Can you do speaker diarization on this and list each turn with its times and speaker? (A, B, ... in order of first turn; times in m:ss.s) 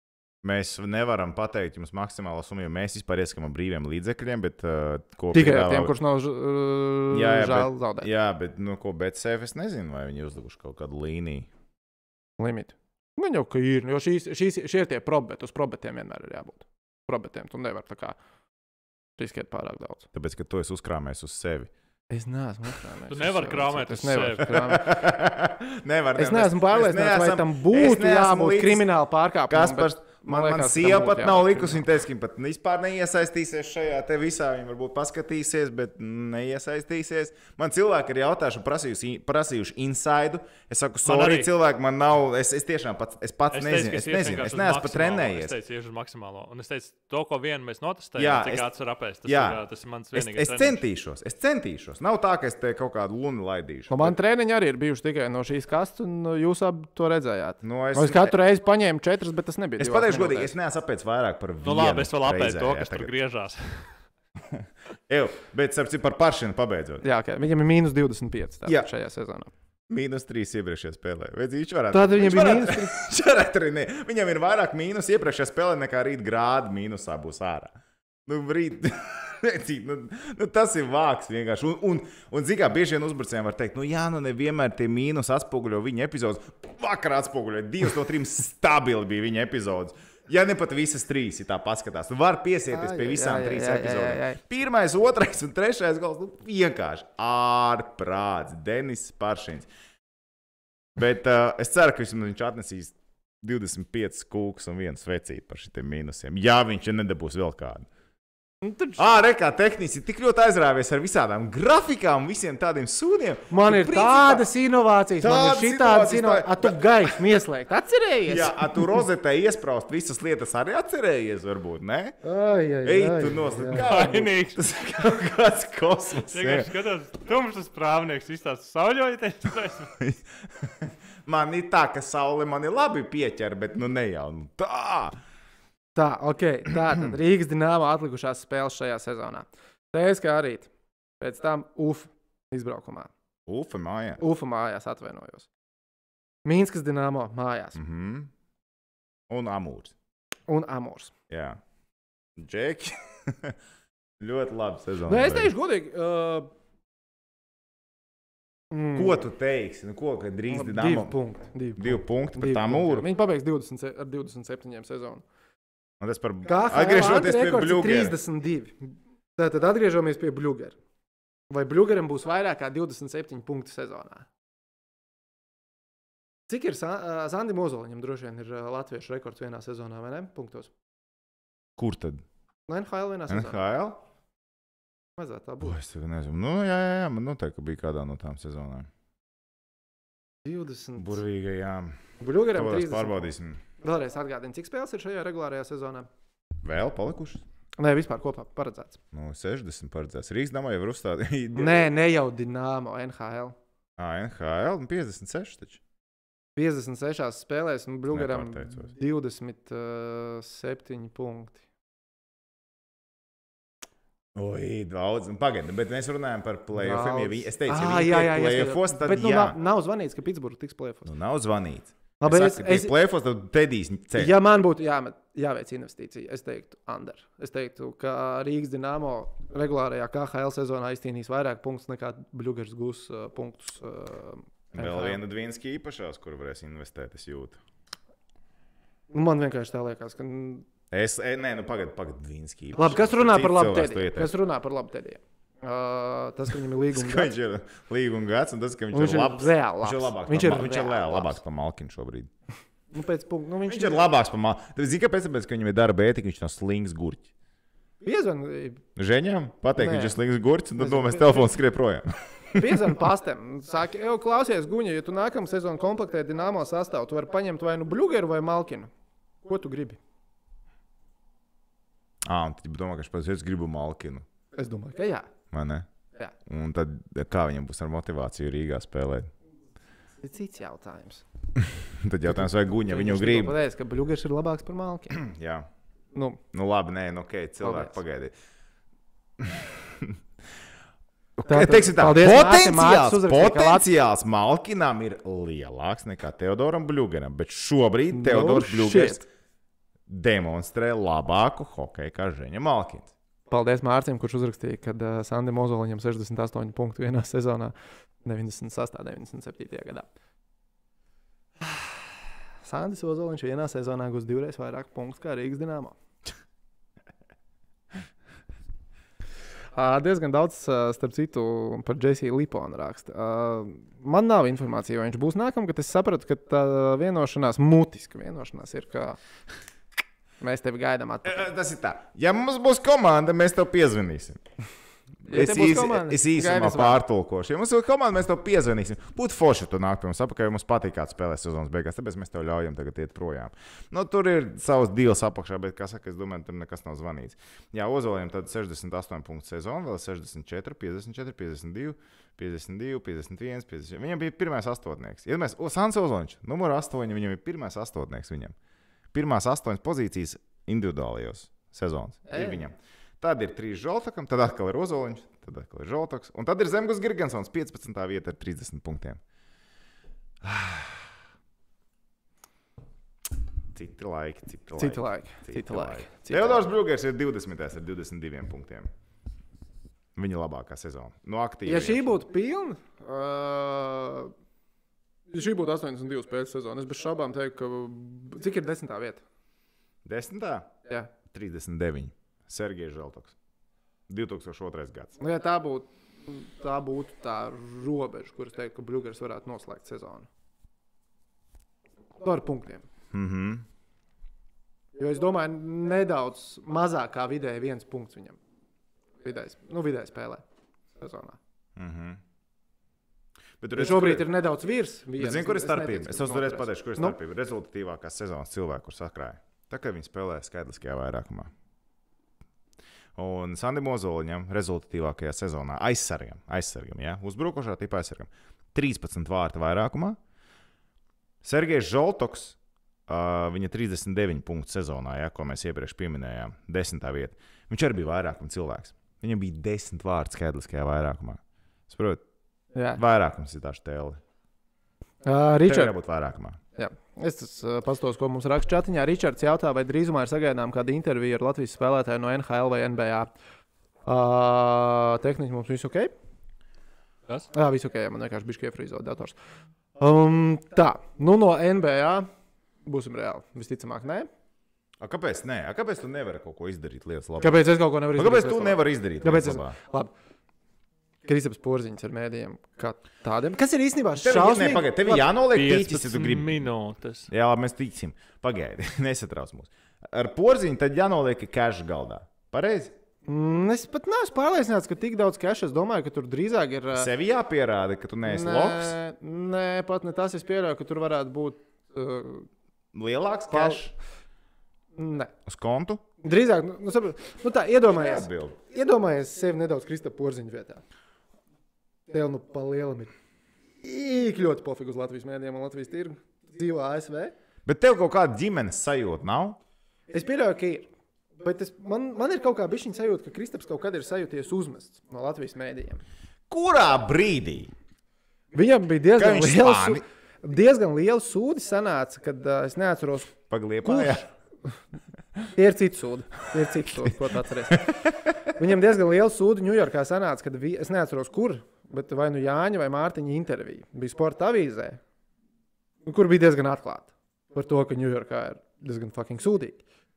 0:00.4-0:05.9 A
0:05.3-0:08.1 B
0:07.1-0:11.5 A
0:12.4-0:18.2 B
0:19.2-0:20.1 B
0:20.1-0:21.7 A
0:22.1-0:24.9 B
0:23.1-0:24.5 C
0:24.5-0:28.8 A
0:26.2-0:31.8 B
0:29.5-0:45.5 A
0:41.0-0:41.5 C
0:43.5-0:50.8 C
0:48.2-0:48.6 A
0:49.2-0:49.6 A
0:50.1-0:54.1 A
0:53.9-1:00.5 B
0:57.6-0:58.3 A
0:59.8-1:03.1 A
1:01.6-1:04.0 C
1:04.4-1:07.0 A
1:07.0-1:09.5 B
1:09.9-1:17.7 A
1:11.9-1:13.1 B
1:18.2-1:39.7 A
1:32.7-1:34.4 B
1:41.0-1:47.9 A
1:48.6-1:49.2 B
1:49.0-1:54.5 A
1:53.5-1:59.0 B
1:55.2-1:57.1 A
1:58.3-2:02.2 A
2:02.2-2:03.8 B
2:02.8-2:06.7 A
2:03.7-2:04.7 C
2:06.3-2:09.9 C
2:10.0-2:15.2 A
2:16.0-2:20.7 B
2:16.7-2:17.2 A
2:21.2-2:23.1 B
2:23.5-2:24.2 A
2:24.2-2:25.5 B
2:26.4-2:27.8 B
2:27.8-2:28.3 A
2:29.3-2:29.9 A
2:30.5-2:31.1 B
2:31.3-2:31.6 A
2:32.4-2:33.6 A
2:34.2-2:35.5 A
2:35.0-2:36.5 B
2:38.7-2:39.2 B
2:38.9-2:41.1 A
2:40.5-2:45.2 B
2:41.8-2:43.0 A
2:46.0-2:48.2 A
2:46.4-2:50.8 B
2:51.5-2:54.3 B
2:56.5-3:00.7 B
3:01.8-3:02.2 A
3:02.7-3:03.6 B
3:03.3-3:04.0 A
3:05.2-3:05.8 B
3:05.6-3:08.9 A
3:10.4-3:11.2 B
3:11.0-3:12.0 A
3:12.2-3:16.1 B
3:12.5-3:13.6 A
3:16.6-3:17.4 A
3:17.8-3:19.0 B
3:19.1-3:21.8 A
3:21.5-3:23.6 B
3:24.0-3:25.8 A
3:26.6-3:31.6 B
3:28.1-3:28.9 A
3:34.3-3:39.6 A
3:36.7-3:41.1 B
3:41.0-3:44.3 A
3:42.2-3:42.9 B
3:44.1-3:55.2 B
3:54.7-3:57.6 A
3:59.1-4:00.7 B
4:00.9-4:04.3 A
4:02.7-4:07.3 B
4:06.9-4:12.3 A
4:08.9-4:11.4 B
4:12.9-4:14.0 B
4:13.7-4:17.3 A
4:18.0-4:18.8 B
4:19.0-4:22.8 A
4:19.8-4:20.2 B
4:20.8-4:21.5 B
4:22.6-4:28.9 B
4:29.4-4:30.0 B
4:32.2-4:34.2 A
4:34.6-4:35.3 B
4:35.5-4:35.9 A
4:36.4-4:39.3 A
4:40.2-4:41.2 B
4:41.6-4:43.6 A
4:42.3-4:45.2 B
4:45.1-4:45.7 A
4:46.1-4:46.4 B
4:46.5-4:48.3 A
4:47.6-4:47.9 B
4:49.4-4:50.2 A
4:51.4-4:59.2 A
4:51.4-4:53.8 B
4:58.1-4:59.2 B
5:00.1-5:03.1 A
5:03.5-5:10.1 B
5:12.6-5:16.0 B
5:19.7-5:29.2 B
5:30.4-5:31.5 B
5:31.2-5:34.4 A
5:35.3-5:37.0 B
5:35.3-5:58.5 A
5:59.1-6:09.2 A
6:02.3-6:02.6 B
6:10.4-6:11.0 A
6:13.7-6:18.9 A
6:14.7-6:16.7 B
6:20.1-6:22.2 A
6:21.6-6:24.3 B
6:25.3-6:29.2 B
6:30.0-6:33.3 A
6:34.1-6:35.2 A
6:35.2-6:40.3 B
6:42.2-6:42.9 B
6:43.1-6:43.6 A
6:45.0-6:48.4 B
6:49.2-6:50.4 B
6:51.0-6:51.4 B
6:51.8-6:52.2 A
6:53.6-6:54.3 A
6:53.7-6:57.2 B
6:55.2-7:01.5 A
7:03.2-7:10.2 A
7:11.4-7:22.2 A
7:22.7-7:23.0 B
7:23.0-7:24.2 A
7:25.2-7:25.9 B
7:25.6-7:26.6 A
7:26.7-7:33.3 B
7:34.0-7:36.1 B
7:37.5-7:39.3 B
7:40.0-7:42.3 B
7:42.8-7:44.3 B
7:45.0-7:49.8 A
7:47.4-7:50.1 B
7:51.2-7:55.2 B
7:54.2-7:56.6 A
7:55.5-7:57.3 C
7:57.3-8:02.9 A
8:03.2-8:07.1 B
8:06.9-8:09.0 A
8:08.2-8:12.5 B
8:12.9-8:13.9 A
8:13.5-8:13.8 B
8:14.9-8:15.3 B
8:15.4-8:16.0 A
8:16.2-8:20.8 B
8:17.9-8:18.6 A
8:22.1-8:23.1 B
8:23.8-8:27.3 B
8:27.6-8:29.6 A
8:30.1-8:36.0 B
8:36.5-8:37.7 A
8:38.5-8:44.2 B
8:39.2-8:40.0 A
8:43.5-8:44.2 A
8:45.5-8:48.0 B
8:48.5-8:55.0 B
8:56.0-8:59.8 B